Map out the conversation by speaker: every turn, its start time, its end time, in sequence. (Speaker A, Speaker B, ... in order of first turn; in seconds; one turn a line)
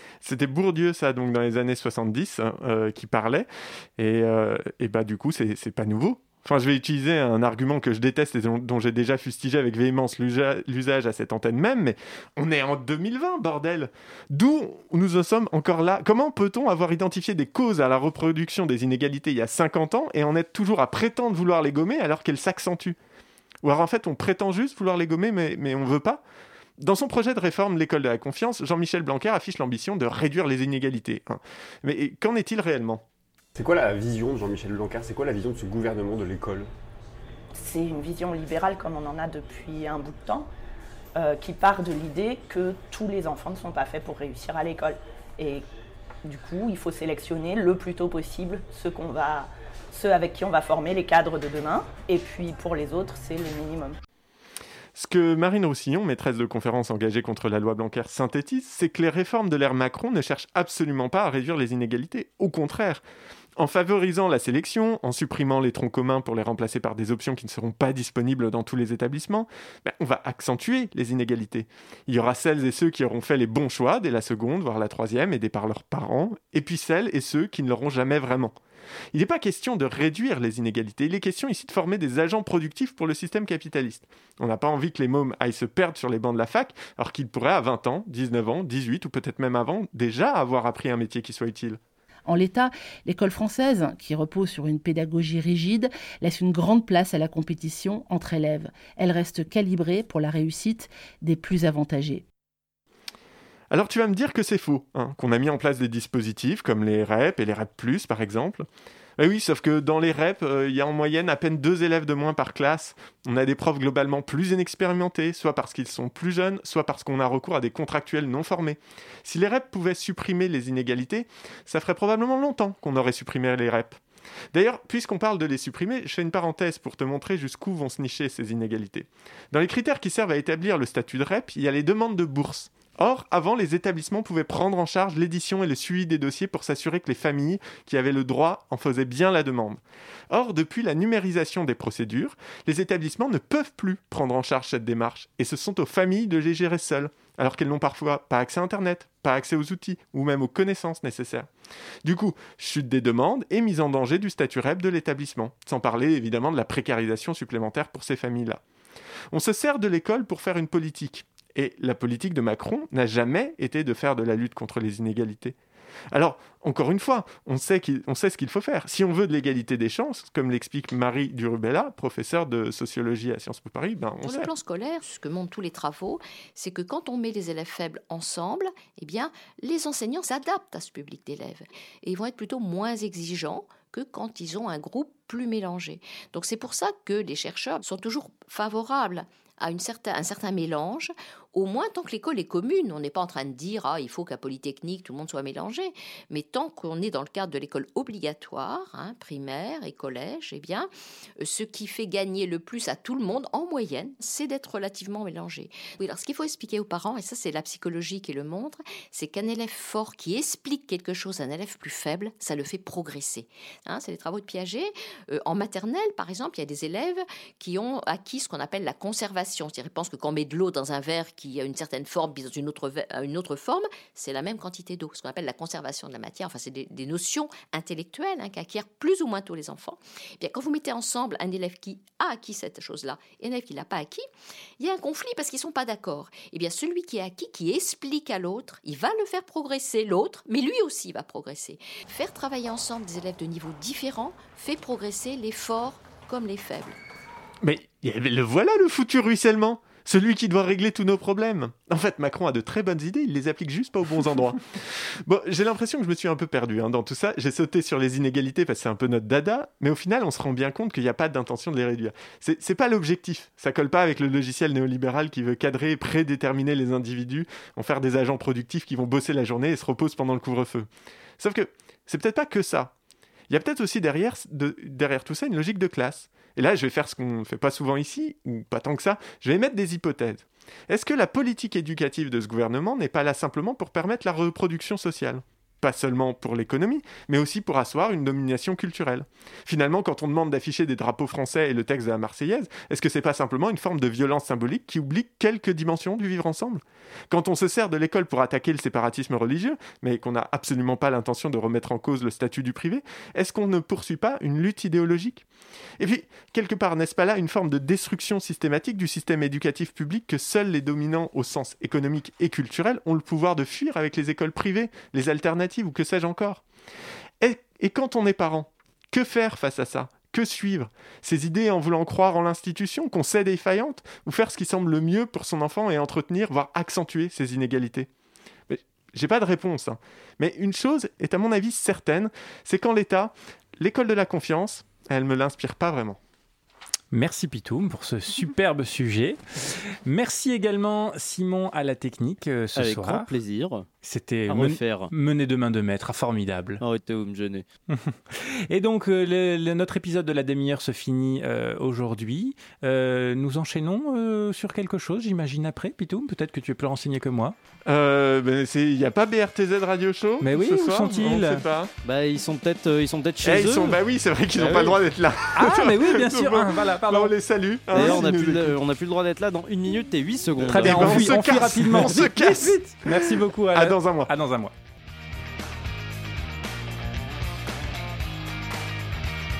Speaker A: 0.2-23.0
Speaker A: 23.6-26.2
Speaker A: 26.8-33.0
Speaker B: 33.5-36.7
Speaker C: 37.5-40.5
Speaker C: 41.1-45.6
Speaker C: 46.2-54.0
Speaker A: 54.9-63.0
Speaker A: 63.6-78.5
Speaker A: 79.1-91.8
Speaker D: 92.2-102.2
Speaker A: 103.7-108.7
Speaker A: 109.2-124.0
Speaker A: 124.5-151.5
Speaker A: 152.0-158.6
Speaker A: 159.3-165.6
Speaker A: 166.1-174.5
Speaker E: 174.2-234.2
Speaker E: 234.8-247.0
Speaker A: 247.6-270.9
Speaker A: 271.4-272.9
Speaker A: 273.5-305.4
Speaker A: 306.0-316.6
Speaker A: 317.4-328.1
Speaker A: 328.7-336.2
Speaker F: 337.1-343.3
Speaker G: 342.8-343.9
Speaker F: 344.0-346.8
Speaker G: 344.5-345.1
Speaker G: 346.8-347.6
Speaker F: 347.9-357.5
Speaker A: 357.9-361.9
Speaker F: 360.4-361.6
Speaker G: 362.0-364.0
Speaker A: 363.4-368.8
Speaker G: 364.6-364.9
Speaker F: 365.5-367.3
Speaker G: 367.9-372.2
Speaker F: 367.9-368.3
Speaker F: 370.6-374.7
Speaker A: 370.7-374.3